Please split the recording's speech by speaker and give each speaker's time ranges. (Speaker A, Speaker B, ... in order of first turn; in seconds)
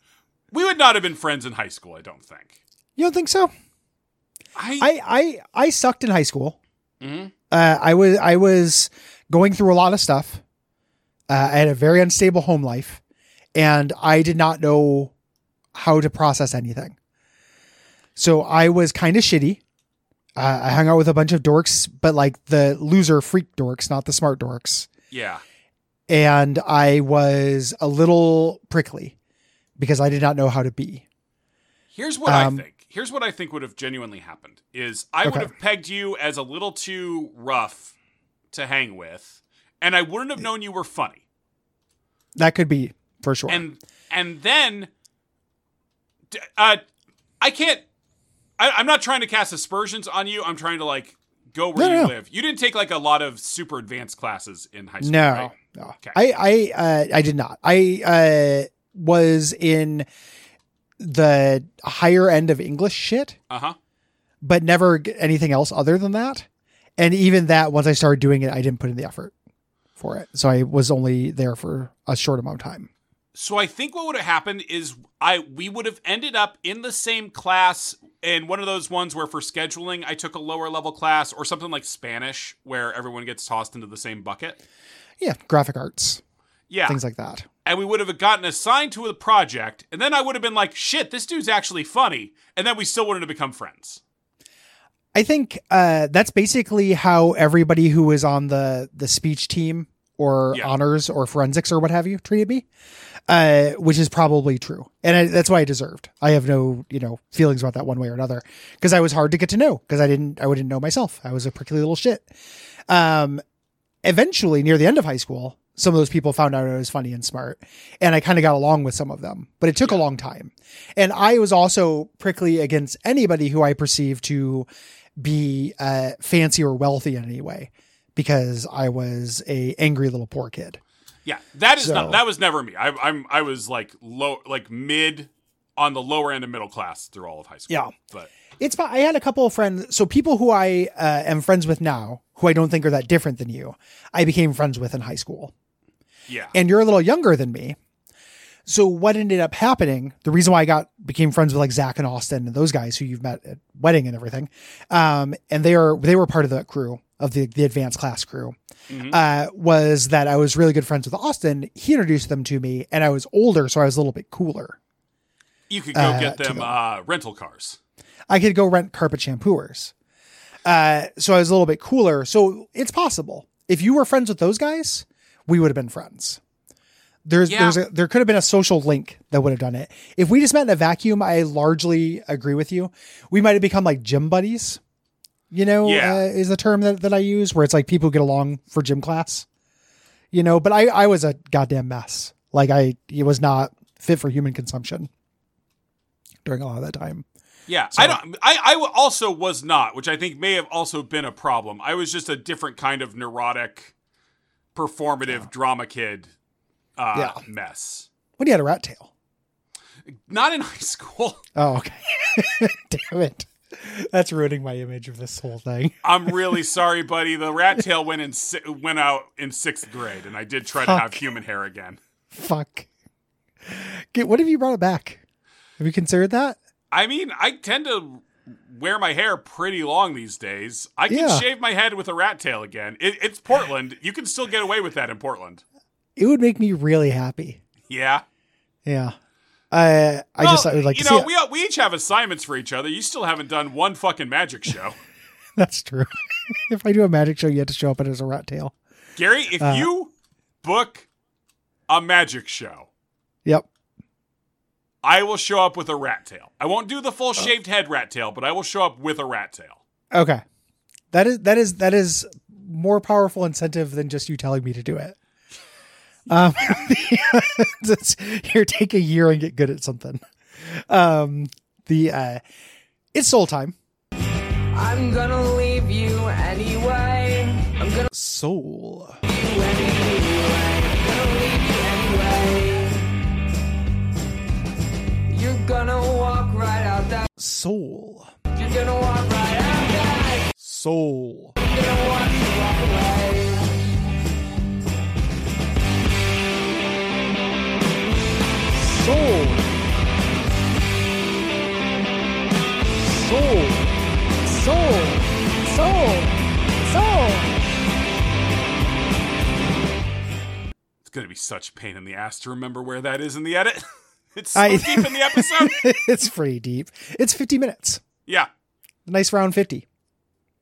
Speaker A: 0.5-2.6, 4.6-4.9, 7.0-7.3, 25.1-25.4, 31.9-37.9, 38.5-41.2, 43.5-44.9, 46.3-46.8, 47.4-47.9, 48.6-56.2, 63.5-63.8, 73.3-84.6, 86.7-87.0, 87.7-94.0, 131.2-138.3, 146.3-146.6, 158.9-159.2, 165.7-167.8, 177.4-177.8, 185.8-186.2, 197.7-203.9, 204.8-206.3, 207.0-208.1, 210.1-211.4, 216.0-222.0, 226.9-235.6, 237.9-238.2, 240.4-245.0, 249.2-250.1, 250.6-251.1, 251.9-252.9, 255.0-259.8, 311.0-315.8
Speaker B: 3.0-3.5, 4.8-6.6, 7.5-10.4, 11.3-13.0, 13.6-15.1, 15.7-16.9, 18.2-19.6, 20.4-24.9, 26.1-29.1, 29.8-31.1, 32.3-32.6, 35.2-35.5, 42.4-43.6, 51.8-52.1, 55.0-60.1, 61.0-63.4, 64.4-66.5, 67.0-69.3, 70.0-72.9, 85.2-86.2, 86.9-87.5, 95.1-102.7, 103.3-112.3, 112.9-113.4, 114.0-130.8, 131.8-132.2, 138.6-145.5, 146.5-147.8, 148.7-158.6, 159.1-164.8, 165.9-166.7, 168.3-169.9, 170.7-176.4, 177.2-184.8, 185.5-189.5, 190.3-195.1, 196.4-197.2, 207.1-207.4, 208.4-209.1, 211.6-216.3, 220.8-221.2, 222.3-222.9, 223.7-225.2, 225.8-226.6, 231.1-231.5, 236.2-237.6, 238.8-239.2, 239.7-241.3, 245.6-248.8, 249.6-249.9, 260.1-260.4, 261.1-265.2, 266.3-272.4, 273.1-273.8, 278.1-279.2, 287.4-288.3, 290.6-291.5, 298.7-299.7, 303.0-307.5, 314.6-318.0, 319.1-319.9
Speaker C: 274.7-278.1, 279.3-283.1, 285.3-287.3, 288.6-290.5, 291.6-293.8